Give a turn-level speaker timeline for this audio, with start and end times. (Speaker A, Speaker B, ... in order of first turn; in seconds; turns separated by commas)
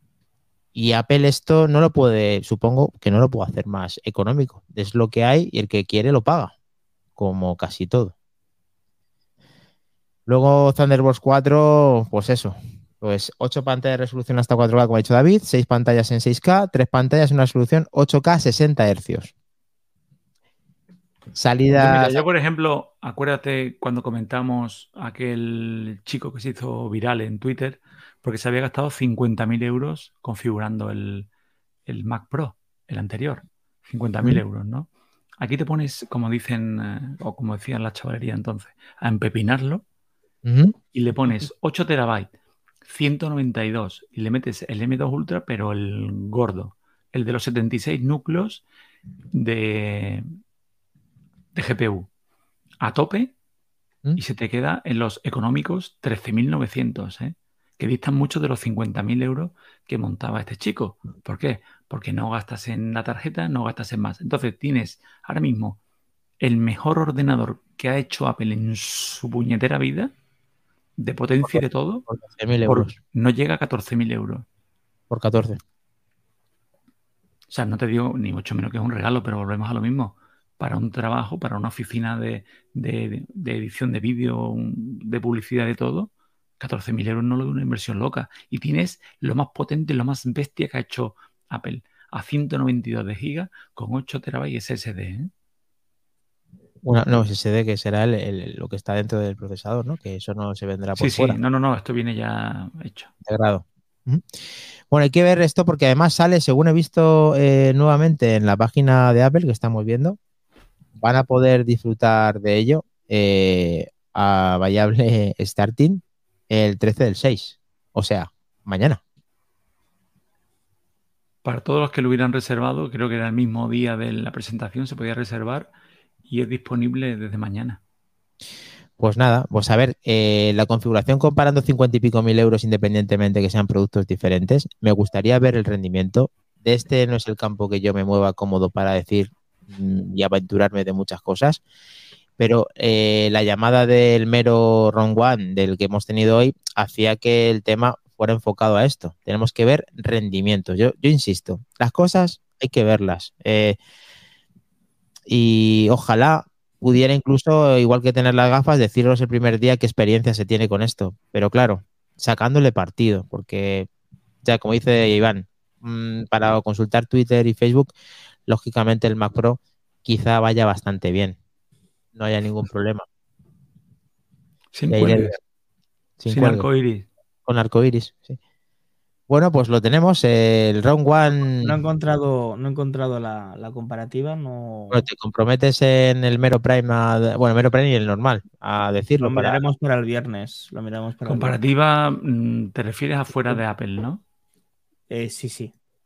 Speaker A: 0.8-6.5, Speaker A: 7.2-8.1, Speaker A: 10.3-19.3, Speaker A: 21.4-22.2, Speaker B: 21.7-31.3, Speaker B: 31.9-34.9, Speaker B: 35.4-39.8, Speaker A: 40.4-40.8, Speaker B: 40.9-42.3, Speaker B: 42.8-48.6, Speaker B: 49.3-50.2, Speaker B: 51.5-52.1, Speaker B: 52.8-53.3, Speaker B: 54.2-65.8, Speaker B: 66.4-70.1, Speaker B: 71.0-72.0, Speaker A: 71.4-73.0, Speaker B: 72.6-74.5, Speaker A: 75.1-75.6, Speaker B: 77.5-95.3, Speaker A: 96.8-101.4, Speaker B: 101.0-103.1, Speaker A: 103.2-104.2, Speaker A: 104.9-110.2, Speaker A: 111.0-119.0, Speaker B: 121.4-125.7, Speaker B: 126.3-127.8, Speaker A: 129.0-141.6, Speaker A: 142.4-153.8, Speaker A: 155.3-163.9, Speaker A: 164.4-167.9, Speaker A: 168.5-171.4, Speaker A: 172.2-173.0, Speaker B: 174.7-175.4, Speaker A: 174.9-175.4, Speaker A: 176.2-176.7, Speaker B: 176.3-177.1, Speaker A: 177.5-178.4, Speaker A: 179.3-181.8, Speaker C: 181.5-185.1, Speaker A: 184.9-189.6, Speaker C: 189.2-191.6, Speaker B: 191.2-194.2, Speaker C: 195.1-195.7